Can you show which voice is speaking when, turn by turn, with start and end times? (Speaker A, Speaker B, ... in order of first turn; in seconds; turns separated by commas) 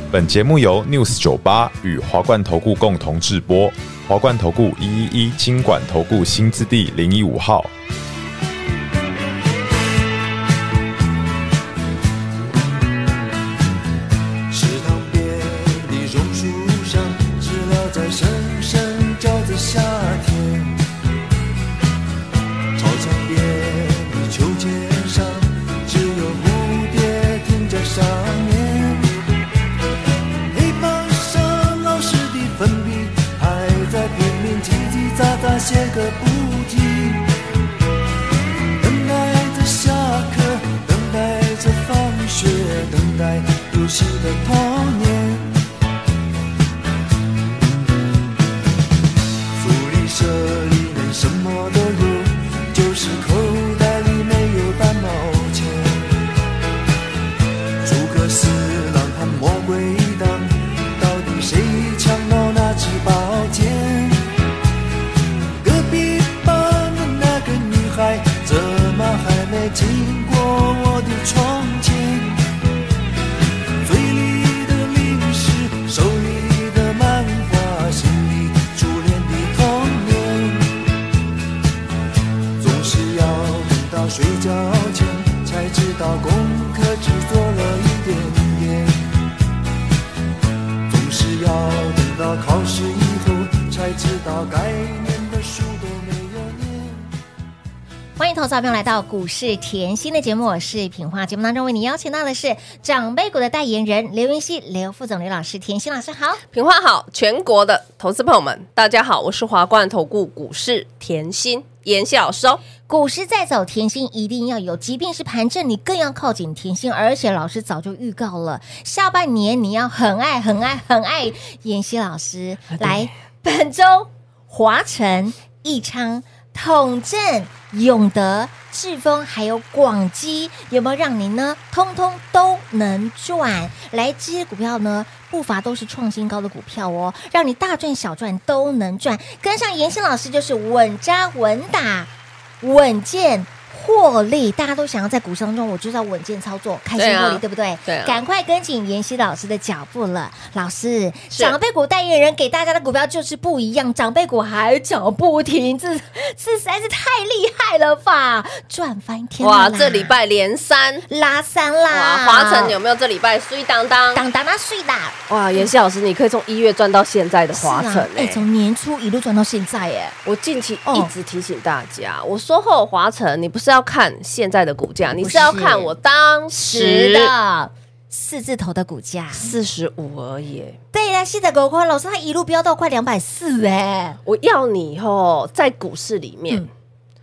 Speaker A: 0.1-7.7, Speaker B: 14.5-20.8, Speaker B: 22.8-29.1, Speaker B: 30.5-37.3, Speaker B: 38.8-45.5, Speaker B: 49.6-56.2, Speaker B: 57.8-64.2, Speaker B: 65.6-72.5, Speaker B: 73.8-80.8, Speaker B: 82.6-89.0, Speaker B: 90.9-97.1, Speaker C: 98.2-106.4, Speaker D: 106.5-112.6, Speaker C: 112.8-142.1, Speaker D: 122.8-123.1, Speaker C: 142.6-160.1, Speaker D: 147.0-148.2, Speaker D: 151.3-151.6, Speaker D: 159.4-161.1, Speaker C: 161.1-162.8, Speaker D: 161.9-164.2, Speaker C: 164.1-165.7, Speaker D: 165.3-168.4, Speaker C: 167.5-170.2, Speaker D: 170.2-177.3, Speaker C: 170.9-171.1, Speaker C: 175.2-175.9, Speaker C: 176.5-179.5, Speaker D: 179.3-180.8, Speaker C: 180.9-184.2, Speaker D: 184.3-186.7